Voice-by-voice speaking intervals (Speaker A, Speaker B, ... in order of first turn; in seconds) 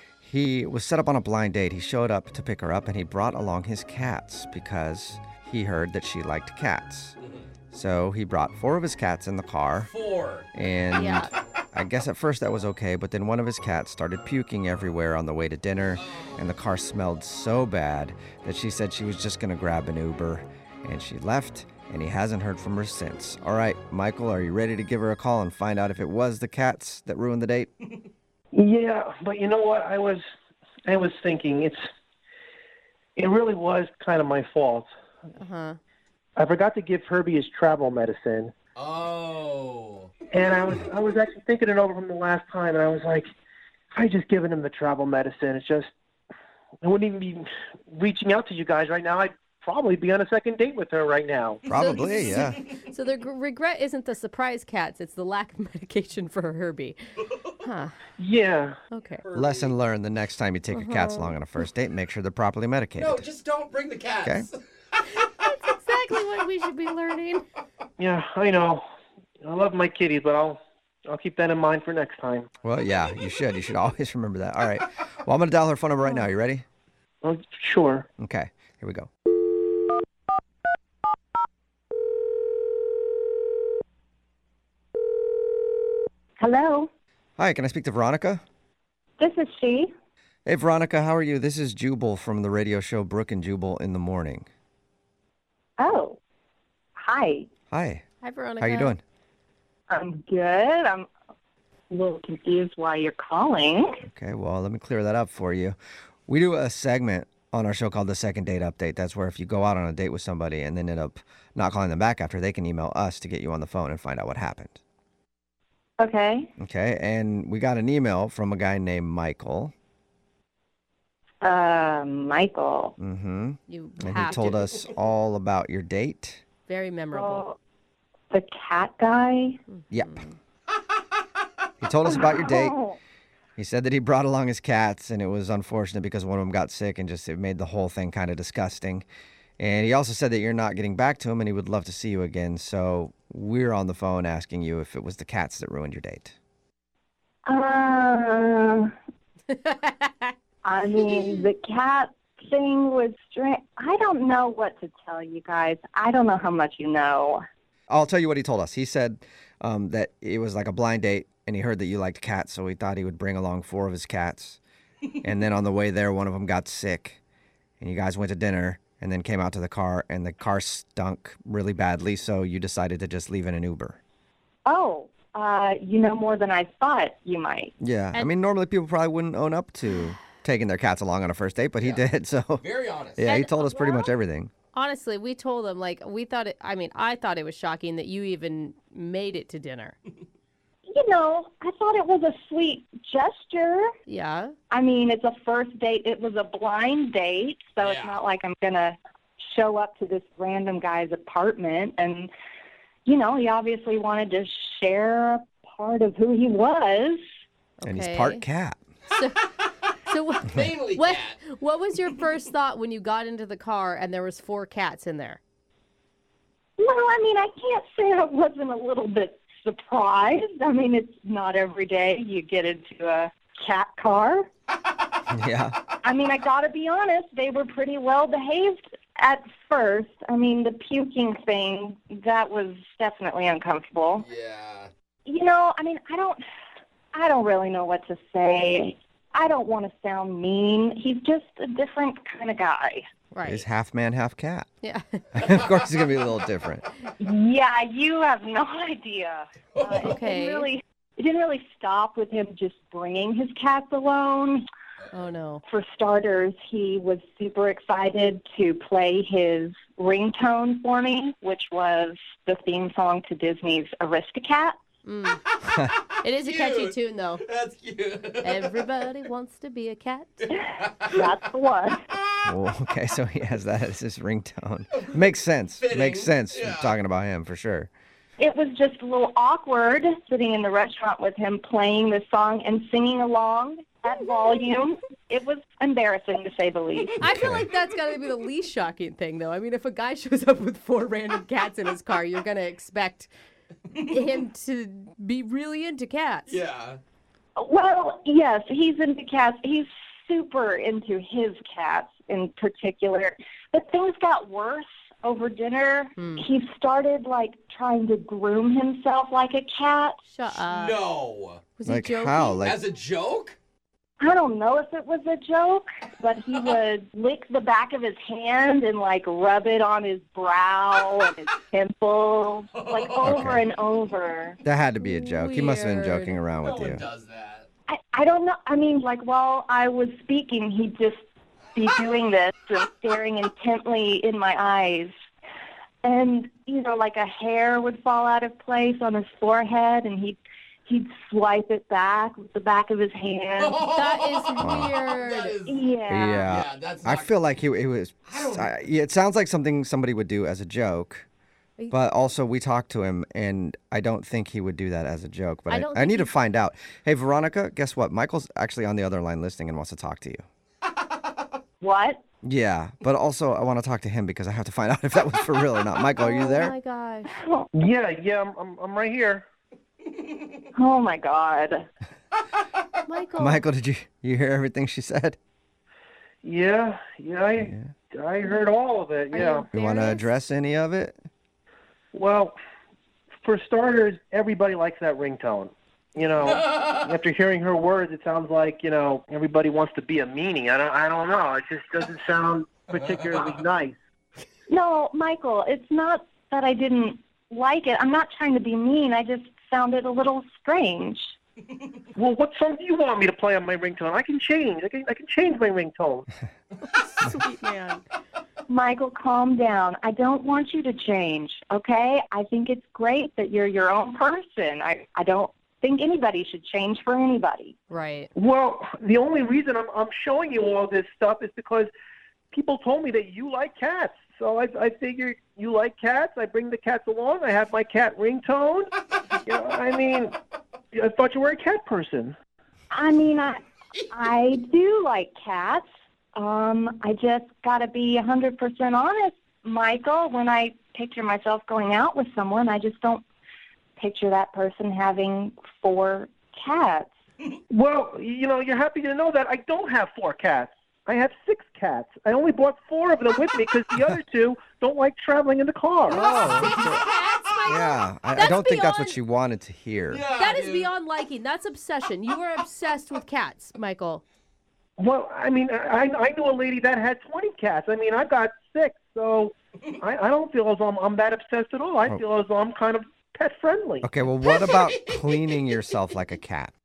Speaker A: 0.2-7.2, 7.7-9.9, 10.5-27.7, 51.7-52.6, 59.3-63.2, 72.6-76.6, 78.2-79.1, 87.4-88.4, 90.5-94.5, 97.7-98.0, 98.6-99.0, 104.0-114.8, 116.6-119.7, 123.0-126.4, 129.9-130.2, 131.8-132.8, 133.6-139.1, 139.6-146.3, 157.9-164.6, 165.2-167.2, 167.8-174.0, 177.8-182.6, 183.2-184.5, 207.8-208.8, 225.3-225.7, 243.4-244.7, 245.3-246.8, 272.4-277.9, 287.2-287.7, 311.9-312.8, 323.2-323.6, 324.6-327.0, 344.6-344.9, 346.1-351.2, 351.9-360.4, 362.4-366.7, 373.4-375.4, 377.6-377.9, 379.7-381.2, 456.1-457.0, 457.6-460.2, 474.0-476.7
Speaker B: 7.2-7.5, 9.8-10.5, 16.0-16.4, 38.7-40.1, 52.0-52.8, 59.2-59.8, 63.0-64.6, 181.8-182.0, 182.6-183.4, 197.8-198.2, 210.4-211.5, 234.2-234.9, 249.8-250.1, 265.7-269.2, 270.6-271.2, 275.8-276.9, 294.0-294.3, 296.5-297.0, 310.5-311.7, 312.6-313.6, 322.7-323.4, 326.6-327.7, 343.6-345.9, 346.4-347.5, 348.3-348.7, 386.4-387.0, 392.9-393.5, 460.1-460.9, 474.4-475.2
Speaker C: 10.9-11.3, 35.4-35.8, 51.7-57.0, 57.6-57.9, 58.9-59.2, 60.7-61.6, 65.0-67.4, 76.0-76.3, 98.2-98.9, 123.7-124.6, 126.7-127.4, 129.7-130.3, 149.5-150.3, 183.2-184.1, 184.7-189.9, 194.1-194.5, 207.8-208.4, 209.1-209.5, 210.1-215.4, 243.3-243.7, 244.8-245.3, 250.1-250.7, 255.1-255.6, 265.0-265.4, 266.2-267.4, 268.4-270.5, 287.2-293.3, 293.9-296.6, 306.2-306.4, 310.3-311.1, 311.8-312.6, 325.0-326.5, 343.9-345.6, 355.7-356.3, 366.1-367.3, 373.0-373.6, 379.3-380.3, 406.9-408.0, 417.9-418.3, 456.1-459.2, 460.3-464.2
Speaker D: 28.5-30.2, 30.9-31.8, 33.1-34.9, 36.4-38.5, 40.3-43.3, 43.9-45.9, 46.8-51.6, 58.2-58.8, 68.0-68.8, 69.4-72.5, 77.2-78.0, 367.7-369.4, 376.4-379.6, 382.1-382.5, 383.4-393.9, 402.1-406.3, 418.3-421.9, 422.5-428.9, 429.4-430.4, 430.9-432.4, 447.7-456.3, 465.0-474.1
Speaker E: 86.4-86.9, 89.2-89.9, 95.8-96.2, 97.0-97.5, 99.9-101.1, 101.9-104.0, 116.0-116.5, 121.4-122.9, 127.1-127.6, 128.3-129.6, 132.1-133.0, 147.5-148.9, 150.6-157.4, 174.7-177.7, 190.9-193.9, 194.7-202.3, 203.0-207.2, 216.8-224.5, 226.0-234.2, 235.2-236.4, 237.1-243.1, 247.2-254.6, 255.6-264.8, 271.0-272.0, 278.4-287.2, 297.6-310.2, 314.2-324.6, 327.9-331.2, 331.7-335.1, 336.0-343.9, 345.6-346.5, 361.8-362.2, 367.3-367.7, 370.7-371.9, 394.7-401.3, 408.7-417.7, 432.9-435.8, 436.4-443.2, 444.0-447.1